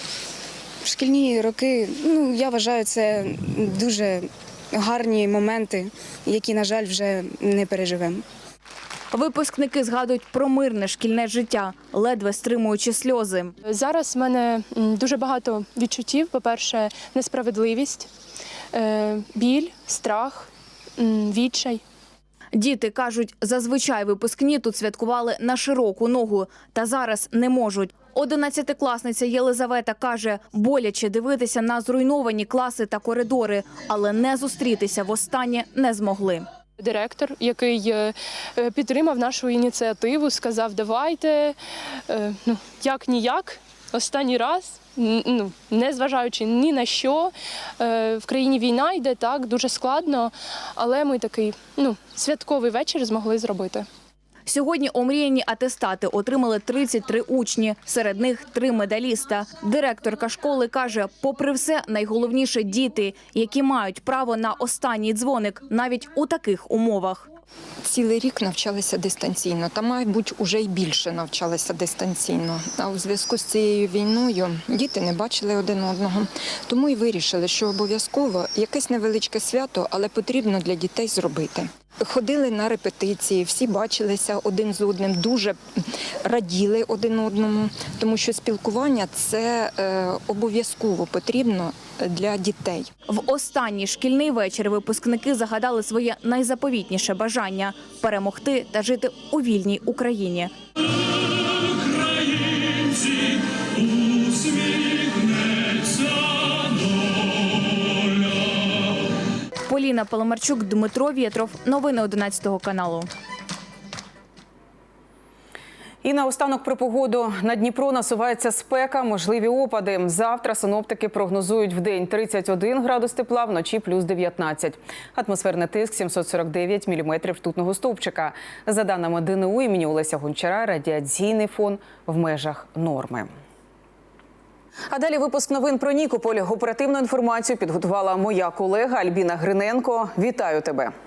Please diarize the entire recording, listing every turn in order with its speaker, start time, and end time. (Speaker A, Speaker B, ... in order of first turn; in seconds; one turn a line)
Speaker A: 0.8-4.2
Speaker A: 4.8-8.2
Speaker B: 9.1-13.5
Speaker C: 13.7-18.1
Speaker C: 18.7-21.8
Speaker B: 22.6-36.5
Speaker C: 36.8-41.6
Speaker C: 42.1-53.9
Speaker B: 54.5-67.3
Speaker D: 67.8-85.6
Speaker D: 86.2-92.9
Speaker B: 93.1-100.5
Speaker B: 109.7-113.1
Speaker E: 116.0-133.3
Speaker E: 134.9-140.9